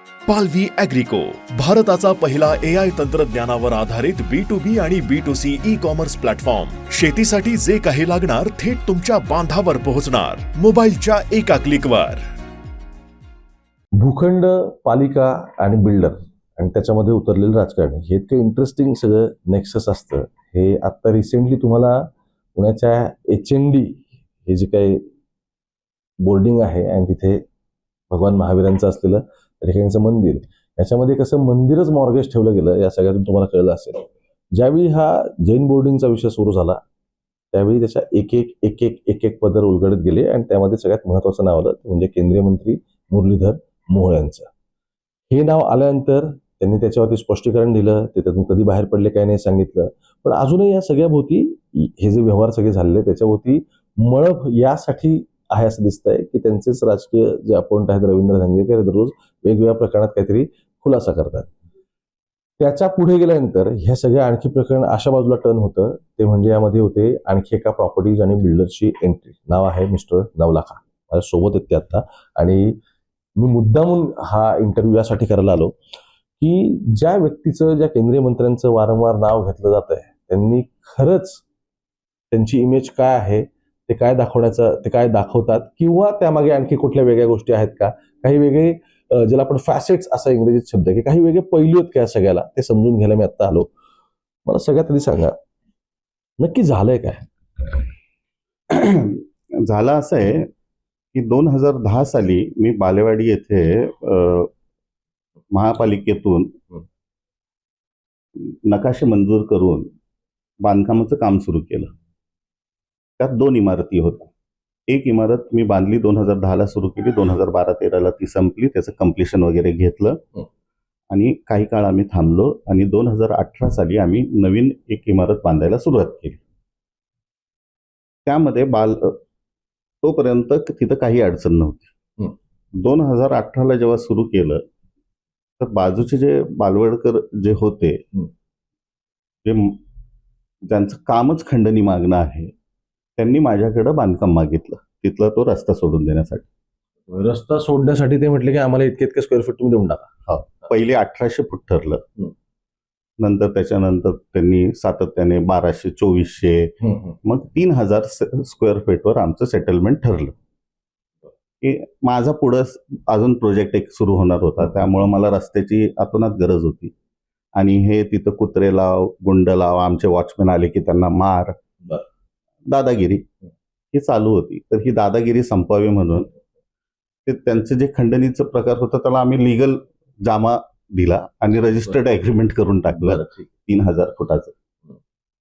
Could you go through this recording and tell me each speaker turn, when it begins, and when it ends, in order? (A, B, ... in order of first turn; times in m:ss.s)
0:00.3-0:12.2 A
0:14.0-0:25.0 B
0:26.2-0:27.4 B
0:28.1-0:36.8 B
0:37.5-0:44.5 B
0:45.3-1:01.5 B
1:02.6-1:12.8 B
1:13.4-1:15.8 B
1:16.4-1:21.4 B
1:22.3-1:33.7 B
1:34.4-1:35.4 B
1:36.4-1:37.8 B
1:38.7-1:40.5 C
1:41.1-1:44.5 C
1:45.5-1:46.5 C
1:48.4-1:49.9 C
1:50.6-1:51.9 C
1:53.2-1:54.3 C
1:54.9-2:00.2 C
2:01.1-2:06.4 C
2:08.2-2:09.2 C
2:10.0-2:11.9 C
2:12.8-2:14.6 C
2:15.6-2:18.0 C
2:19.4-2:19.8 C
2:20.7-2:22.5 C
2:23.2-2:26.4 C
2:27.1-2:30.1 B
2:30.3-2:32.0 C
2:33.2-2:36.7 C
2:36.8-2:37.2 B
2:37.2-2:40.3 C
2:41.6-2:46.9 C
2:44.6-2:44.9 B
2:47.6-2:51.6 C
2:52.7-2:53.2 C
2:53.9-2:56.3 C
2:57.2-3:04.5 C
3:02.9-3:03.5 B